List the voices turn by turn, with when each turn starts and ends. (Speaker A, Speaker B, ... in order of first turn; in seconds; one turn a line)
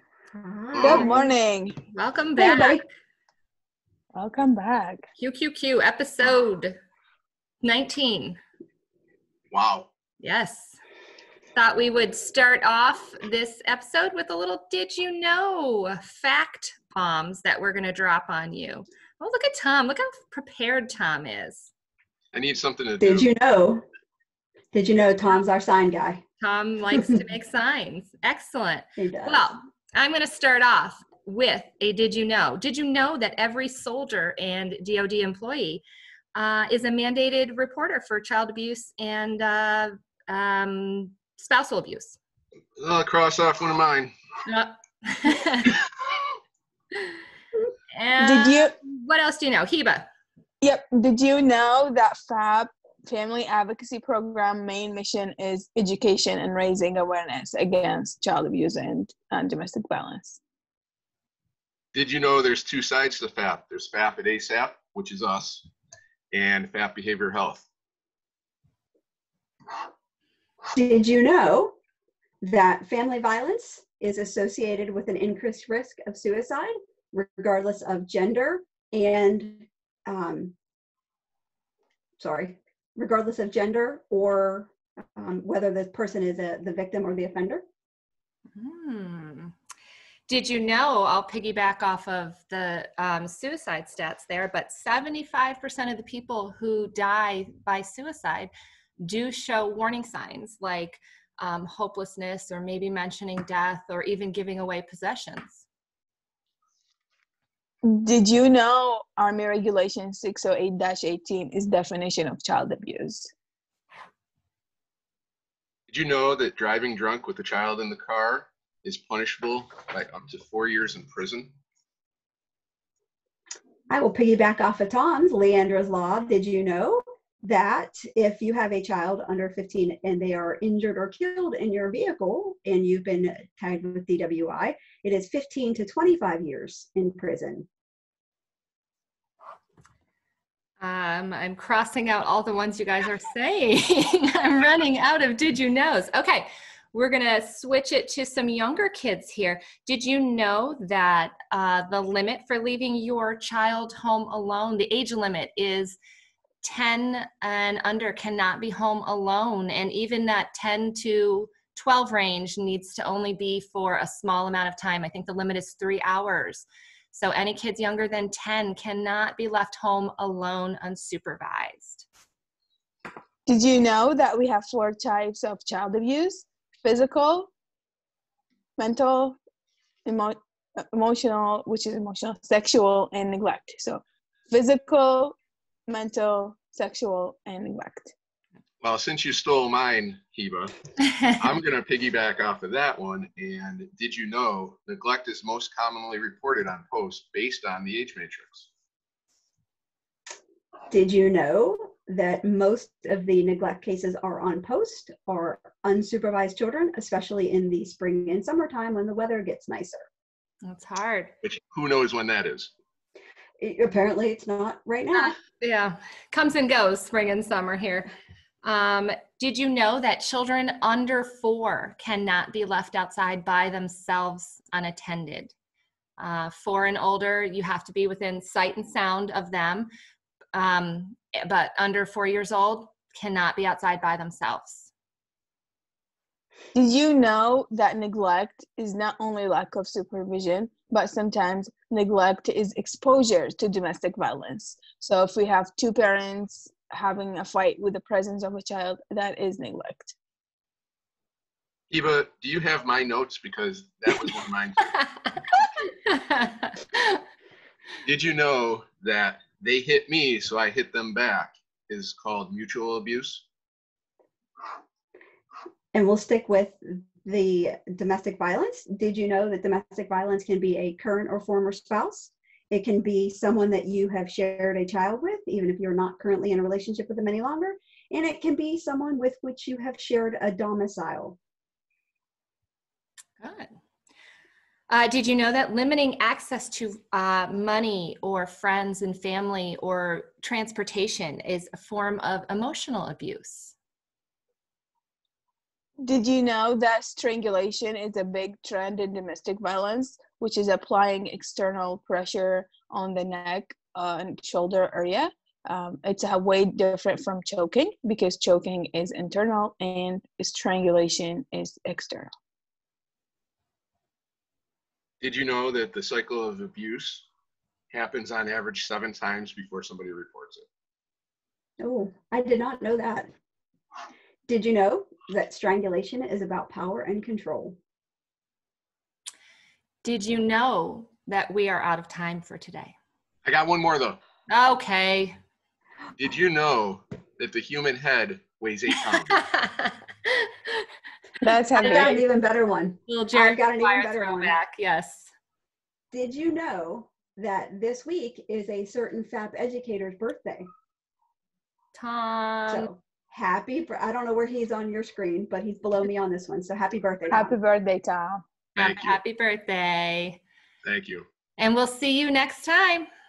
Speaker A: 0.3-1.2
Speaker B: 0.7-1.1
Speaker C: 0.8-1.8
Speaker D: 1.9-2.8
Speaker A: 2.4-2.8
Speaker C: 4.2-5.0
Speaker D: 5.2-6.8
Speaker D: 7.6-8.4
Speaker B: 9.5-9.9
Speaker D: 10.2-10.8
Speaker D: 11.6-21.7
Speaker B: 22.3-23.3
Speaker A: 23.0-23.8
Speaker A: 24.7-26.2
Speaker D: 26.4-35.8
Speaker A: 26.9-27.2
Speaker A: 29.0-29.5
Speaker D: 36.4-42.2
Speaker B: 42.8-44.1
Speaker D: 44.5-45.8
Speaker D: 47.9-50.1
Speaker C: 48.2-48.7
Speaker C: 50.6-60.4
Speaker B: 61.9-65.7
Speaker B: 66.3-67.7
Speaker A: 70.7-71.8
Speaker A: 72.4-80.5
Speaker A: 82.2-87.6
Speaker D: 88.5-89.5
Speaker D: 90.3-105.7
Speaker C: 107.8-113.3
Speaker B: 115.9-121.5
Speaker A: 123.9-137.7
Speaker D: 140.8-156.0
Speaker D: 156.6-172.1
Speaker C: 173.5-177.5
Speaker C: 178.8-179.4
Speaker C: 180.1-185.4
Speaker C: 185.9-188.1
Speaker B: 188.8-190.8
Speaker B: 191.3-198.7
Speaker A: 200.9-210.1
Speaker D: 210.7-211.3
Speaker B: 211.4-212.7
Speaker A: 213.6-215.4
Speaker D: 215.1-218.1
Speaker D: 218.6-225.5
Speaker D: 226.2-229.9
Speaker D: 230.5-234.9
Speaker C: 236.7-250.2
Speaker B: 251.9-254.9
Speaker D: 255.8-257.2
Speaker B: 258.0-263.5
Speaker A: 265.9-281.4
Speaker D: 283.4-283.8
Speaker D: 284.9-293.8
Speaker C: 296.0-312.3
Speaker B: 315.2-317.2
Speaker B: 317.9-320.7
Speaker A: 321.8-323.3
Speaker A: 324.5-327.8
Speaker D: 330.0-333.0
Speaker B: 333.4-334.2
Speaker D: 334.5-335.4
Speaker B: 336.2-339.4
Speaker D: 339.3-340.9
Speaker C: 341.4-342.2
Speaker A: 341.8-344.6
Speaker D: 341.8-342.2
Speaker D: 343.1-345.3
Speaker A: 346.1-350.7
Speaker D: 351.9-352.9
Speaker A: 352.7-357.6
Speaker C: 357.3-358.4
Speaker B: 358.8-359.2
Speaker D: 358.8-360.4
Speaker B: 360.9-361.2
Speaker D: 361.6-363.1